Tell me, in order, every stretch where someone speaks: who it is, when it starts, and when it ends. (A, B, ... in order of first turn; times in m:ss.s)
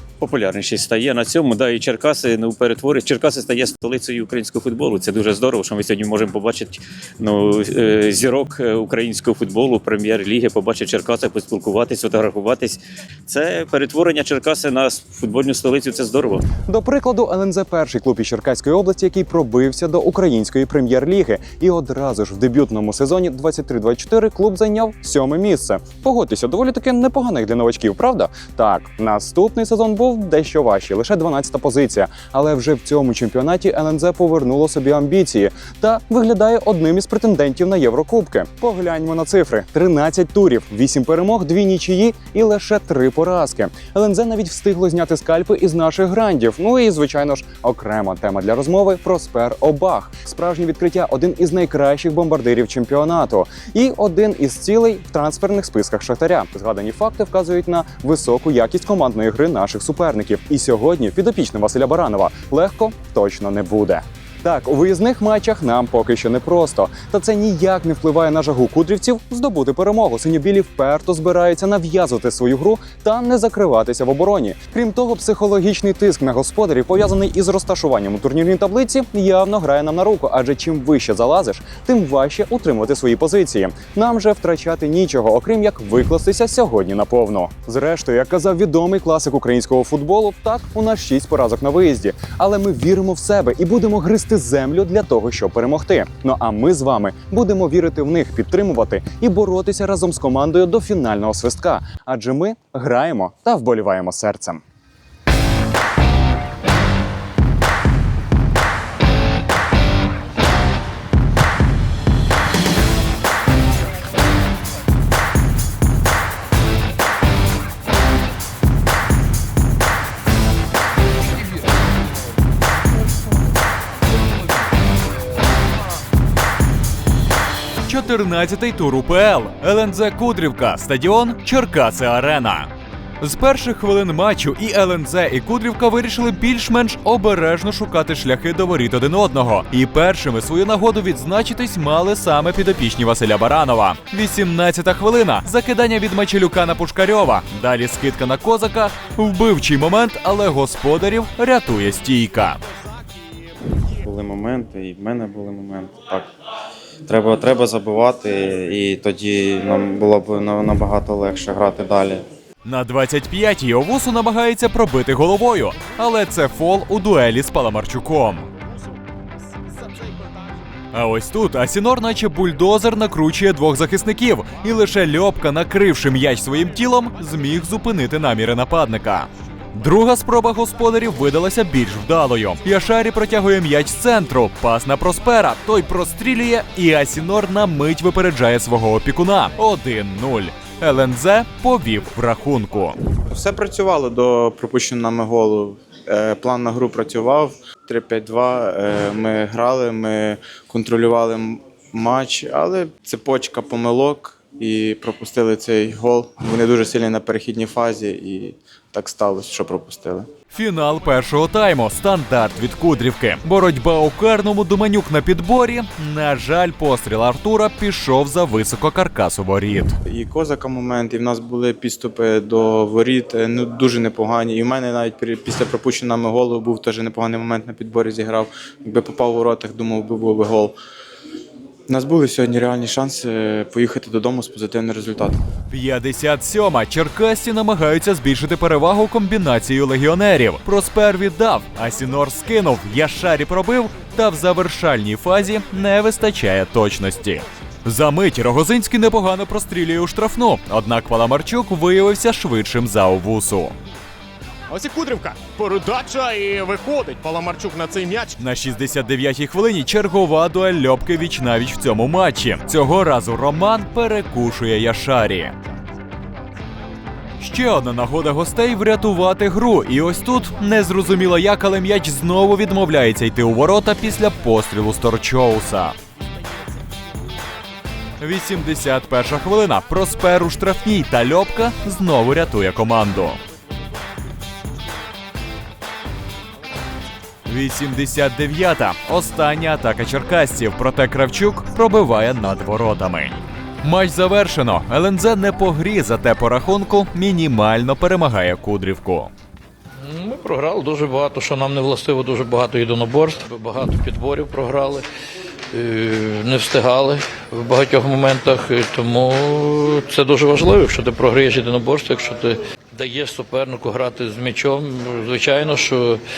0:00.2-0:16.4 A
0:16.7-1:44.6 B
2:07.8-2:12.7 C
2:13.2-2:32.6 C
2:34.0-2:36.3 D
2:37.0-2:42.2 D
2:42.6-2:48.5 C
2:50.9-3:12.9 C
3:13.3-3:30.3 D
3:30.6-3:40.0 C
3:40.0-3:50.8 D
3:51.9-3:55.4 D
3:55.7-4:13.7 C
4:14.7-4:18.2 E
4:18.4-4:25.5 C
4:27.4-4:35.9 C
4:38.2-4:43.4 C
4:47.5-4:59.3 C
5:00.0-5:05.0 F
5:05.7-5:16.2 F